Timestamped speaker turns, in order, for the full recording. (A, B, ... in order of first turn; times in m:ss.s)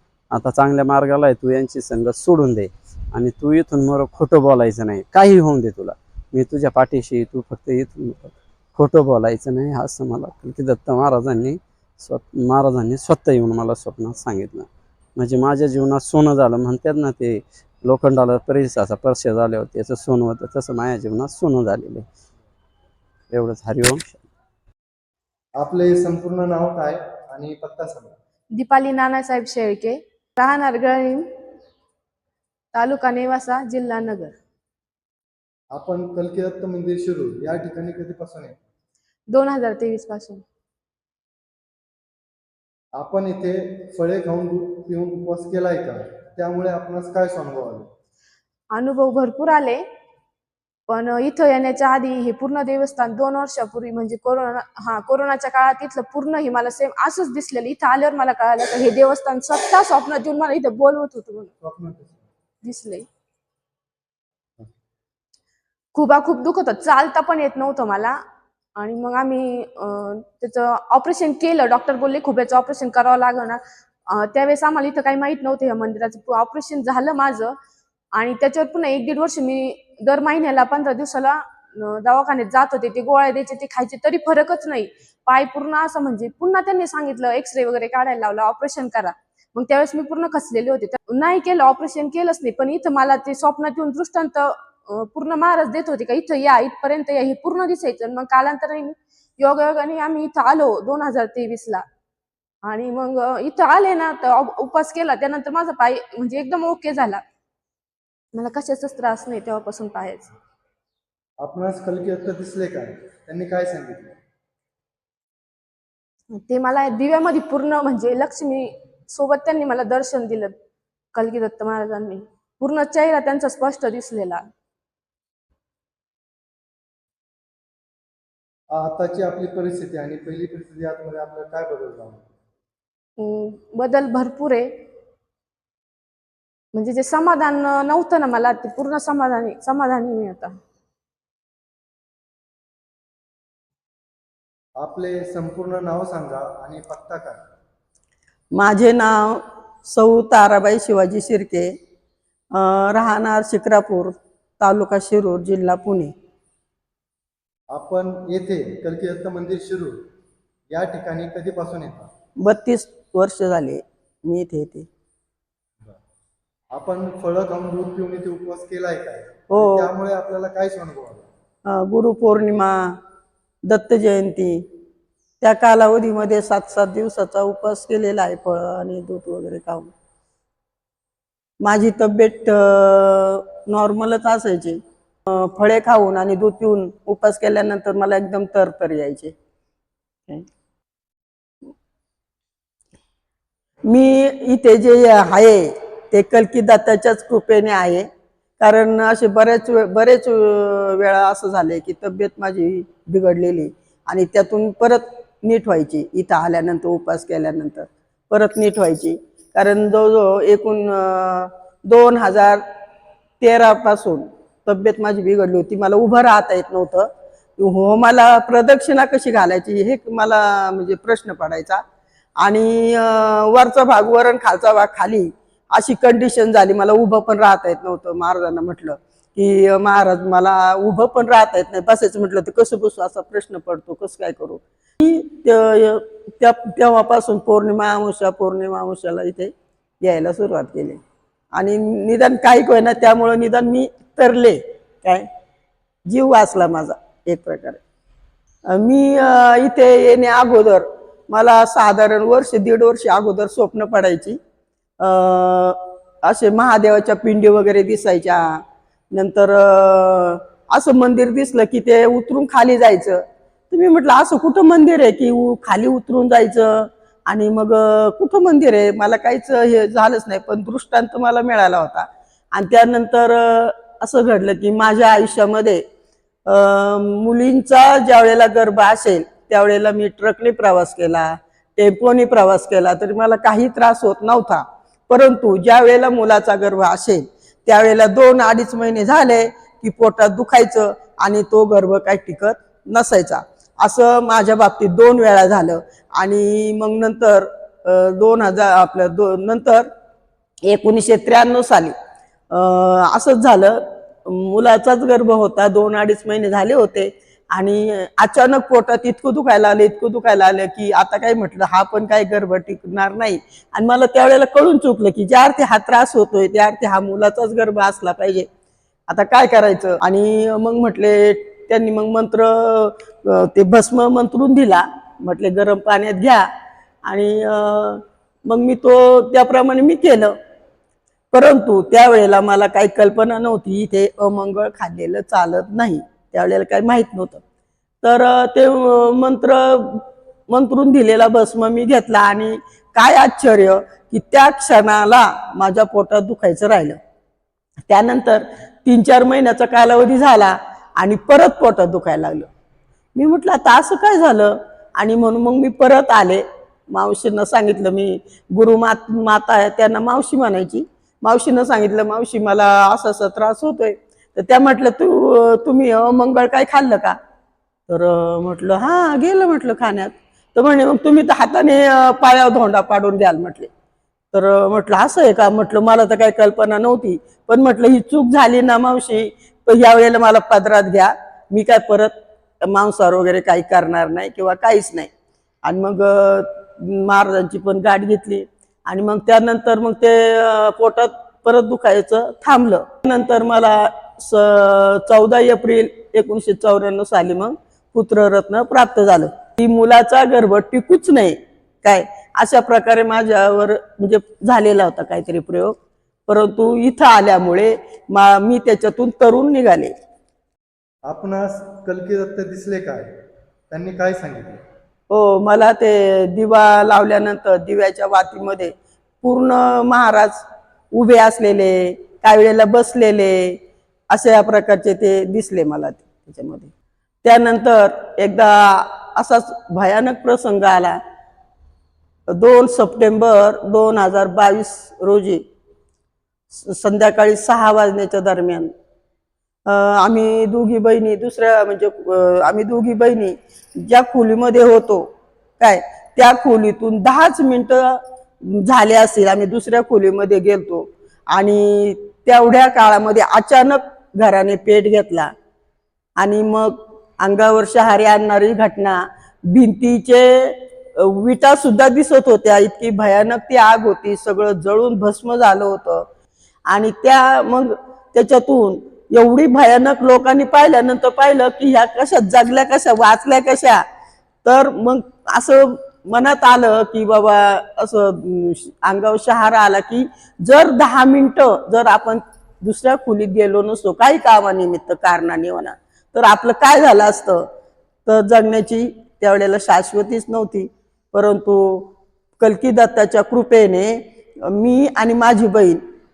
0:00.4-0:14.6 A
0:15.2-0:17.3 A
0:17.9-0:22.0 A
0:23.3-0:24.0 A
0:25.6-0:28.2 B
0:28.6-0:31.2 C
0:32.7-0:34.4 C
0:35.7-0:38.6 B
0:39.3-0:40.4 C
0:43.0-0:47.9 B
0:48.8-0:49.8 C
0:50.9-1:01.5 C
1:01.6-1:02.3 B
1:02.6-1:03.1 C
1:05.9-1:08.2 C
1:08.8-1:17.6 C
1:18.2-1:41.8 C
1:42.6-1:47.2 C
1:48.4-1:50.3 C
1:51.4-1:54.2 B
1:56.3-2:00.5 C
2:01.2-2:04.4 C
2:08.7-2:12.3 B
2:13.2-2:14.7 C
2:16.8-2:20.6 C
2:24.8-2:27.4 B
2:28.5-2:31.7 D
2:32.5-2:36.1 D
2:37.7-2:40.0 B
2:40.7-2:42.1 B
2:42.4-2:44.9 D
2:46.7-2:51.3 B
2:49.5-2:49.9 D
2:51.7-2:53.0 D
2:53.7-2:54.6 D
2:55.4-2:59.9 D
3:01.6-3:09.3 D
3:13.9-3:18.1 D
3:18.6-3:32.6 D
3:33.4-3:41.8 D
3:42.4-4:01.0 D
4:01.5-4:05.3 D
4:06.1-4:07.8 D
4:08.7-4:14.4 D
4:15.0-4:18.6 D
4:19.1-4:35.8 D
4:36.5-4:59.9 D
5:00.7-5:01.9 D
5:02.5-5:18.5 D
5:19.1-5:26.5 D
5:27.1-5:30.4 D
5:31.3-5:37.4 D
5:38.0-5:47.0 D
5:47.9-5:52.5 D
5:53.2-6:07.2 D
6:07.9-6:13.7 D
6:14.3-6:25.1 D
6:25.6-6:45.8 D
6:46.3-6:49.9 D
6:51.1-6:53.1 B
6:53.7-6:54.6 B
6:55.1-7:03.6 D
7:04.1-7:06.7 D
7:07.2-7:11.0 D
7:12.4-7:15.4 D
7:16.5-7:18.7 D
7:19.7-7:25.1 D
7:25.6-7:35.3 D
7:36.2-7:46.0 D
7:46.7-7:53.8 D
7:54.4-8:07.5 D
8:08.1-8:15.8 D